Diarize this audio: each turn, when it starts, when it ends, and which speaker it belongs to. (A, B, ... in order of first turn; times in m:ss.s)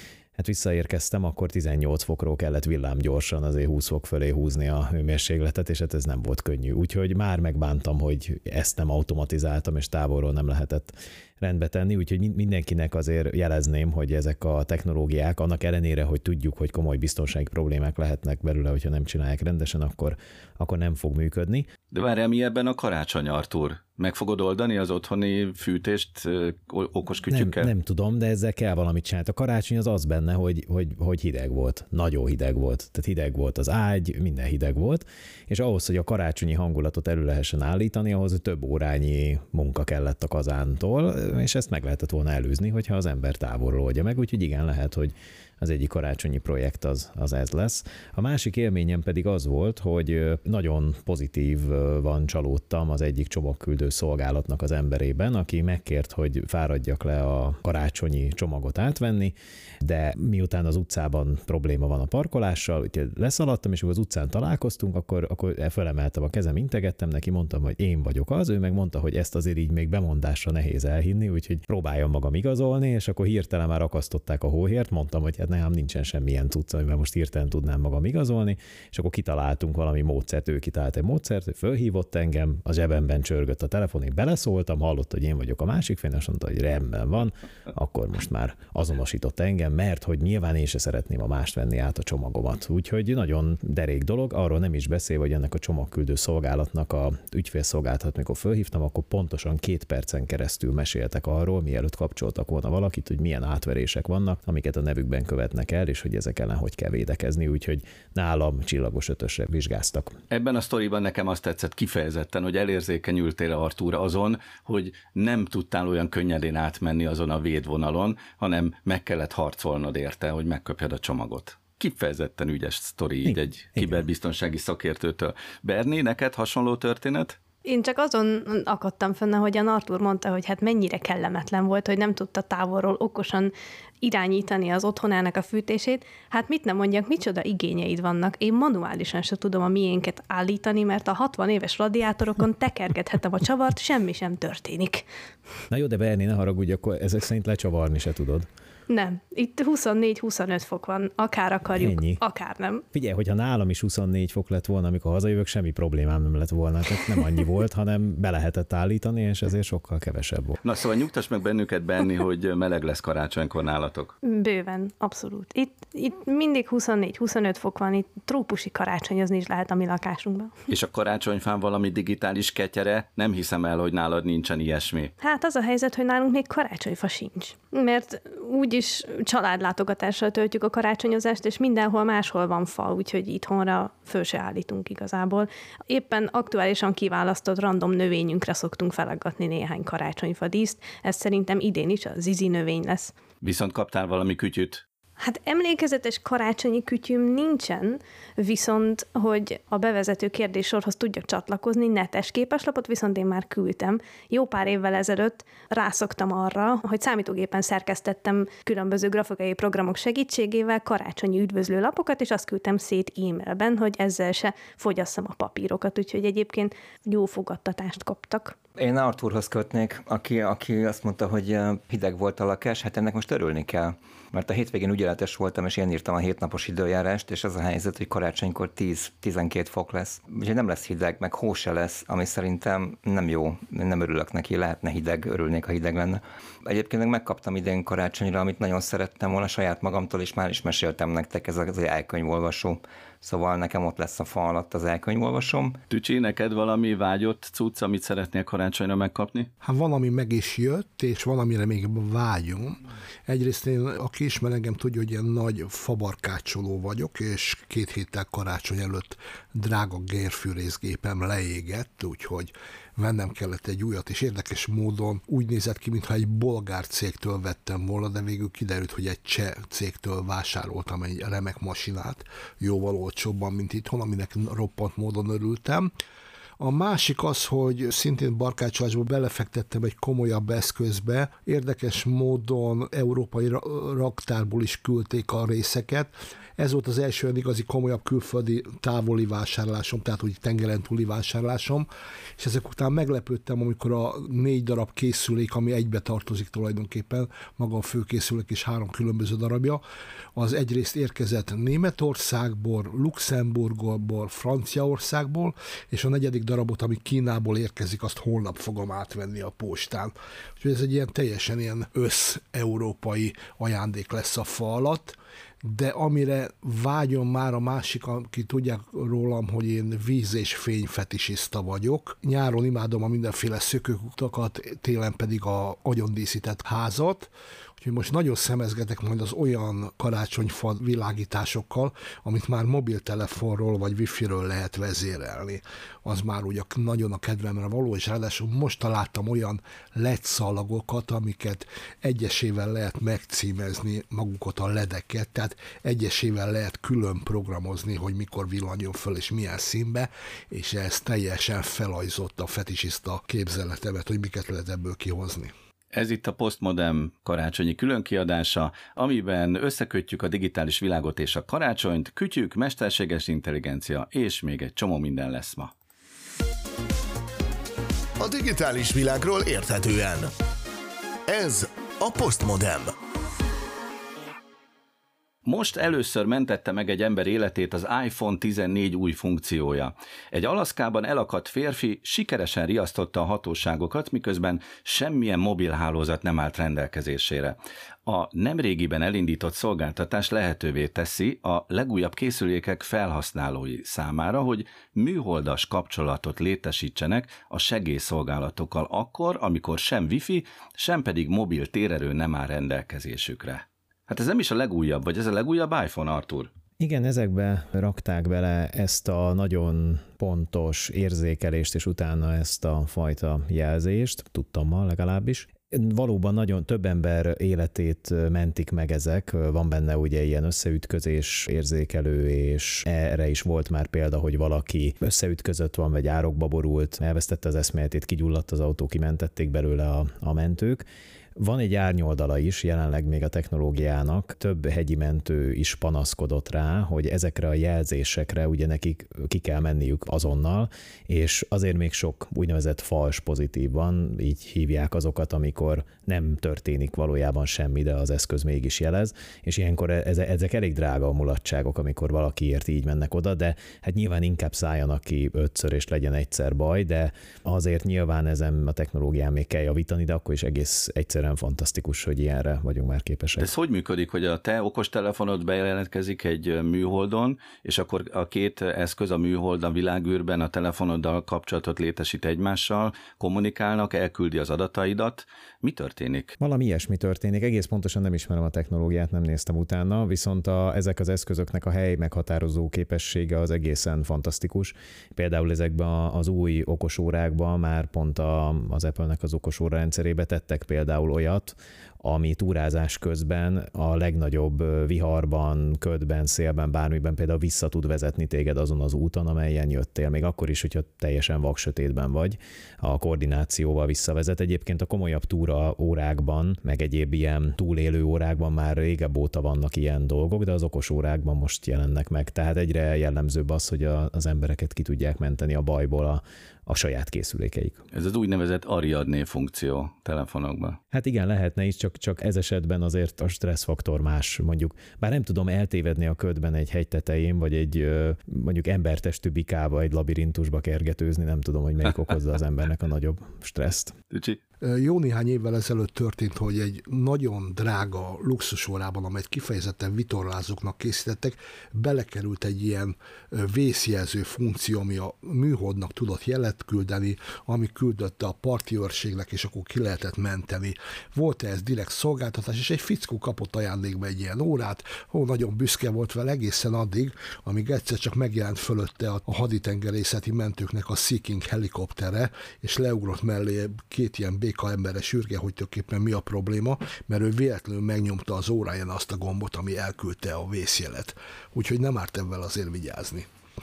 0:00.4-0:21.7 A
0:21.9-0:27.7 B
0:27.3-1:50.1 A
1:50.3-2:07.4 B
2:07.6-2:25.0 C
2:25.7-2:28.5 A
2:28.9-2:32.8 C
2:31.8-2:32.2 A
2:32.9-2:40.6 A
2:40.6-2:44.1 B
2:44.2-2:50.5 C
2:50.7-2:55.1 B
2:55.2-3:13.1 C
3:13.4-3:14.8 B
3:15.2-3:38.5 C
3:38.8-4:05.8 D
4:05.9-4:09.5 B
4:09.6-4:35.9 E
4:36.6-4:59.8 E
5:00.4-5:55.5 E
5:55.9-6:05.7 B
6:08.2-6:10.3 F
6:11.3-6:12.9 F
6:15.4-6:46.5 B
6:46.8-7:10.8 A
7:11.4-7:43.5 A
7:43.4-7:56.3 B
7:56.4-8:37.8 A
8:37.9-8:40.8 B
8:40.9-8:53.9 A
8:54.1-8:54.4 B
8:54.6-9:33.3 E